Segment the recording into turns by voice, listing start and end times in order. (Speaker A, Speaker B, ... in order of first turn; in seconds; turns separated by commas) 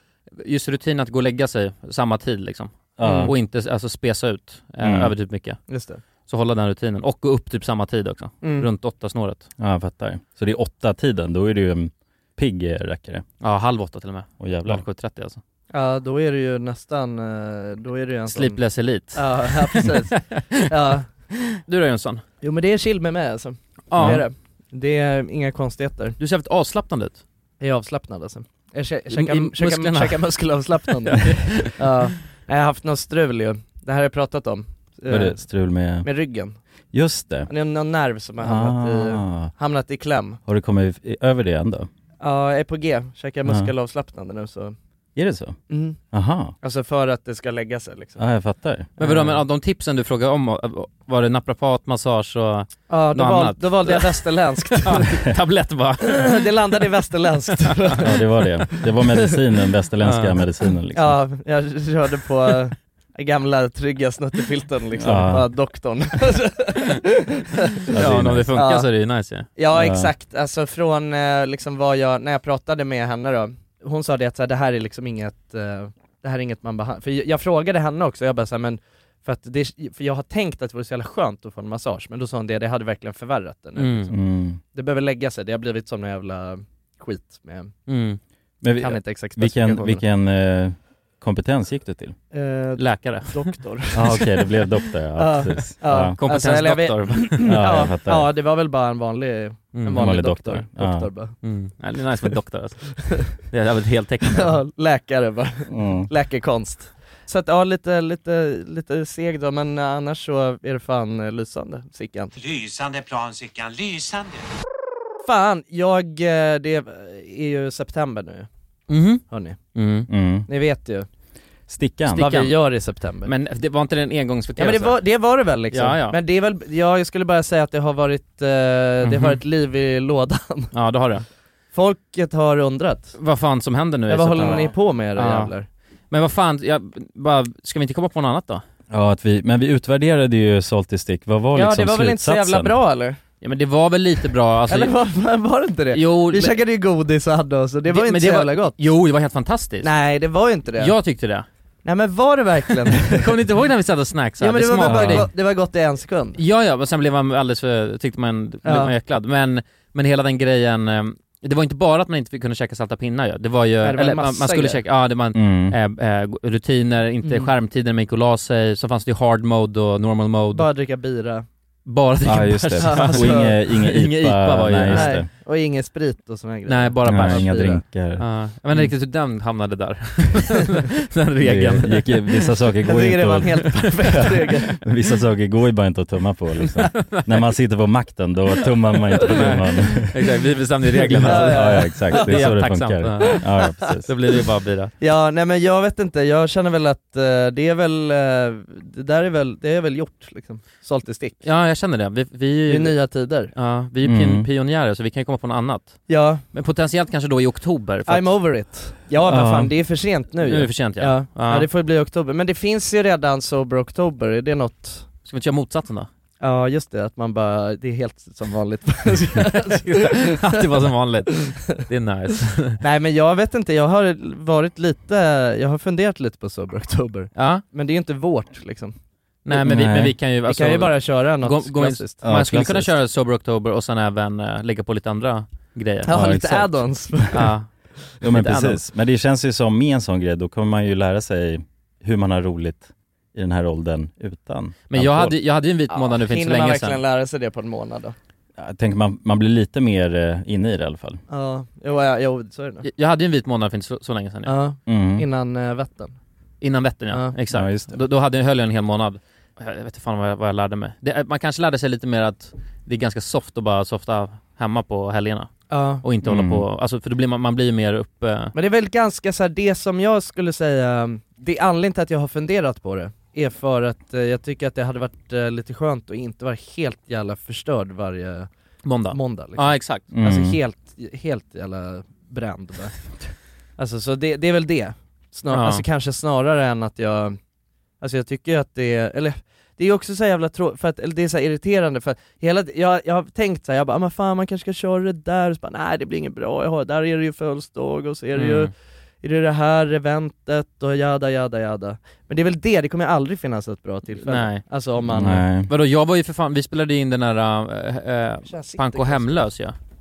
Speaker A: 0.3-5.6, Speaker B: 3.0-3.3, Speaker C: 3.0-3.3, Speaker B: 4.8-5.1, Speaker C: 5.7-6.0, Speaker A: 6.3-9.4, Speaker C: 8.4-8.7, Speaker B: 9.6-13.2, Speaker A: 13.4-15.4, Speaker B: 14.4-14.8, Speaker C: 15.7-18.6, Speaker A: 18.3-20.6, Speaker C: 19.1-21.1, Speaker A: 21.5-22.2, Speaker C: 22.4-26.2, Speaker A: 23.9-24.2, Speaker B: 23.9-24.2, Speaker A: 26.2-27.2, Speaker C: 27.6-35.5, Speaker A: 29.1-30.2, Speaker A: 31.1-31.8, Speaker B: 35.1-36.1, Speaker C: 36.0-36.6, Speaker B: 36.9-37.5, Speaker C: 37.5-40.4, Speaker B: 38.4-39.5, Speaker B: 40.5-41.9, Speaker C: 42.2-44.8, Speaker B: 43.4-43.7, Speaker B: 45.1-45.5, Speaker C: 45.7-46.0, Speaker B: 46.1-46.5, Speaker C: 46.6-48.2, Speaker B: 48.2-48.9, Speaker C: 49.0-49.4, Speaker A: 49.0-56.8, Speaker C: 52.9-55.0, Speaker C: 56.1-58.1, Speaker B: 58.0-61.2, Speaker C: 58.8-59.3, Speaker A: 60.0-60.4, Speaker C: 60.9-67.8, Speaker B: 65.0-65.5, Speaker B: 67.9-68.5, Speaker A: 67.9-69.5, Speaker C: 68.5-68.8, Speaker C: 69.5-84.2, Speaker B: 69.7-70.1, Speaker A: 83.8-84.1, Speaker B: 84.1-84.6, Speaker C: 84.7-87.7, Speaker A: 87.9-88.2, Speaker B: 88.6-92.2, Speaker C: 88.8-90.0, Speaker C: 92.3-94.4, Speaker A: 92.8-93.5, Speaker B: 93.9-96.2, Speaker C: 95.2-101.3, Speaker A: 96.2-97.7, Speaker B: 97.4-98.3, Speaker A: 99.7-100.1, Speaker B: 99.9-101.1, Speaker A: 101.4-104.6, Speaker C: 104.3-112.3, Speaker B: 105.7-106.1, Speaker C: 115.2-118.5, Speaker A: 118.9-119.2, Speaker C: 119.3-119.6, Speaker A: 119.7-120.1, Speaker B: 120.1-120.5, Speaker C: 120.5-121.1, Speaker B: 121.7-122.2, Speaker C: 122.1-123.3, Speaker A: 122.1-122.5, Speaker A: 123.2-125.0, Speaker C: 124.6-130.7, Speaker A: 125.7-126.2, Speaker A: 129.0-129.4, Speaker A: 130.7-131.2, Speaker C: 131.7-133.2, Speaker A: 133.2-135.5, Speaker C: 134.1-135.7, Speaker B: 134.4-134.7, Speaker A: 136.1-138.6, Speaker B: 138.9-142.8, Speaker C: 141.5-143.2, Speaker A: 143.4-145.0, Speaker C: 144.7-148.8, Speaker A: 145.9-146.6, Speaker A: 147.9-149.9, Speaker C: 149.8-150.9, Speaker A: 150.8-151.4, Speaker C: 151.8-153.3, Speaker A: 153.0-155.3, Speaker C: 154.4-156.4, Speaker B: 154.8-155.2, Speaker A: 156.4-170.7, Speaker C: 158.6-158.9, Speaker C: 163.8-164.8, Speaker B: 165.3-165.8, Speaker C: 167.2-167.5, Speaker C: 170.5-171.4, Speaker A: 171.8-175.2, Speaker B: 172.2-175.3, Speaker C: 172.8-173.6, Speaker C: 174.9-177.8, Speaker A: 176.7-182.5, Speaker B: 177.1-178.9, Speaker B: 181.4-190.2, Speaker C: 182.8-184.8, Speaker A: 183.8-184.2, Speaker A: 186.8-187.5, Speaker A: 189.1-194.9, Speaker B: 191.1-194.1, Speaker C: 191.2-192.5, Speaker C: 195.0-201.4, Speaker A: 201.4-208.4, Speaker C: 202.7-203.5, Speaker B: 204.0-204.5, Speaker C: 206.1-206.4, Speaker C: 208.1-215.1, Speaker B: 209.2-209.7, Speaker A: 210.4-211.7, Speaker A: 215.2-216.1, Speaker C: 216.4-220.6, Speaker A: 219.4-222.8, Speaker C: 222.8-228.9, Speaker A: 227.3-227.6, Speaker A: 229.4-236.2, Speaker B: 229.5-230.2, Speaker C: 230.5-232.2, Speaker B: 232.2-232.9, Speaker C: 236.0-237.4, Speaker B: 236.1-237.3, Speaker A: 237.3-237.7, Speaker B: 238.2-245.3, Speaker A: 238.2-238.8, Speaker A: 244.9-247.0, Speaker C: 245.9-248.2, Speaker B: 248.6-251.2, Speaker C: 251.3-252.9, Speaker A: 252.8-254.5, Speaker C: 254.4-256.2, Speaker B: 254.8-255.2, Speaker A: 256.6-268.5, Speaker B: 257.5-257.9, Speaker C: 265.7-266.0, Speaker B: 266.2-266.6, Speaker C: 268.5-278.5, Speaker A: 278.8-280.0, Speaker C: 279.1-283.0, Speaker B: 280.1-280.6, Speaker C: 283.8-287.4, Speaker A: 285.5-285.8, Speaker C: 288.0-298.7, Speaker A: 298.3-298.7, Speaker C: 299.2-305.4, Speaker A: 304.2-304.6, Speaker B: 305.1-305.7, Speaker A: 305.1-309.7, Speaker C: 308.4-309.5